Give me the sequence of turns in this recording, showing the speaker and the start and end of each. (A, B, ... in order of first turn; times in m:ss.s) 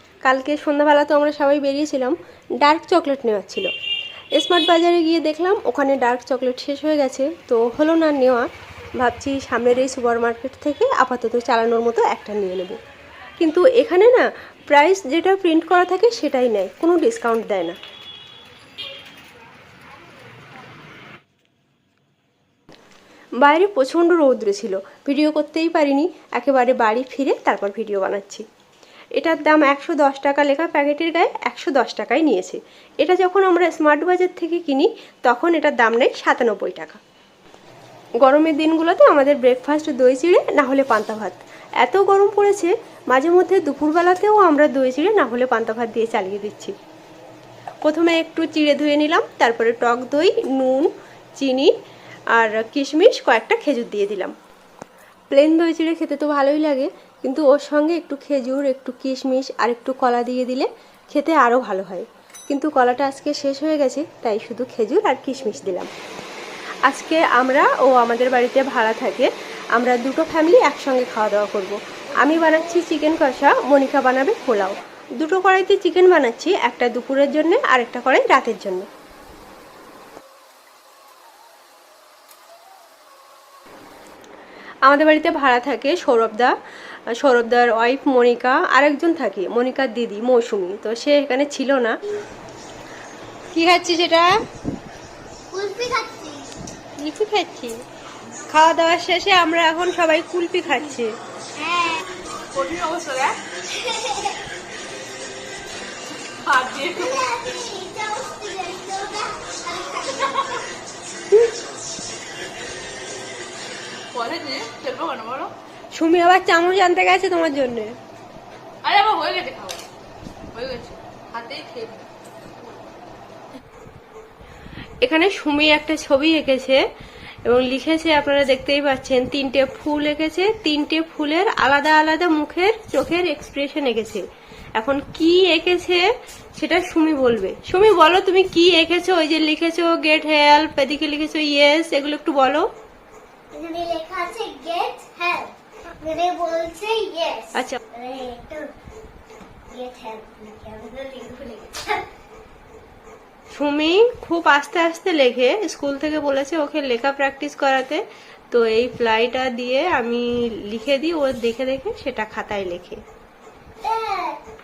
0:00.2-0:03.7 A
0:04.4-0:12.8 A
0:13.4-0:17.8 A
0:23.4-0:28.4 A
0:29.2-0:37.0 A
0:38.2-0:46.7 A
0:47.8-0:51.7 A
0:52.3-0:54.3 A
0:55.3-1:05.9 A
1:06.9-1:18.8 A
1:24.9-1:26.5 A
1:27.2-1:32.0 A
1:33.5-1:34.3 A
1:35.5-1:36.5 B
1:37.0-1:37.8 A
1:38.5-1:41.1 A
1:41.6-1:42.1 B
1:42.5-1:43.4 C
1:43.6-1:44.4 B
1:46.4-1:47.2 C
1:46.8-1:50.7 B
1:54.1-1:55.5 C
1:56.0-1:58.0 A
1:58.8-1:59.8 C
2:00.5-2:02.1 C
2:05.0-2:06.8 A
2:07.4-2:14.2 A
2:14.8-2:22.7 A
2:23.5-2:28.7 B
2:29.7-2:32.0 B
2:33.5-2:43.0 A
2:43.8-2:44.4 B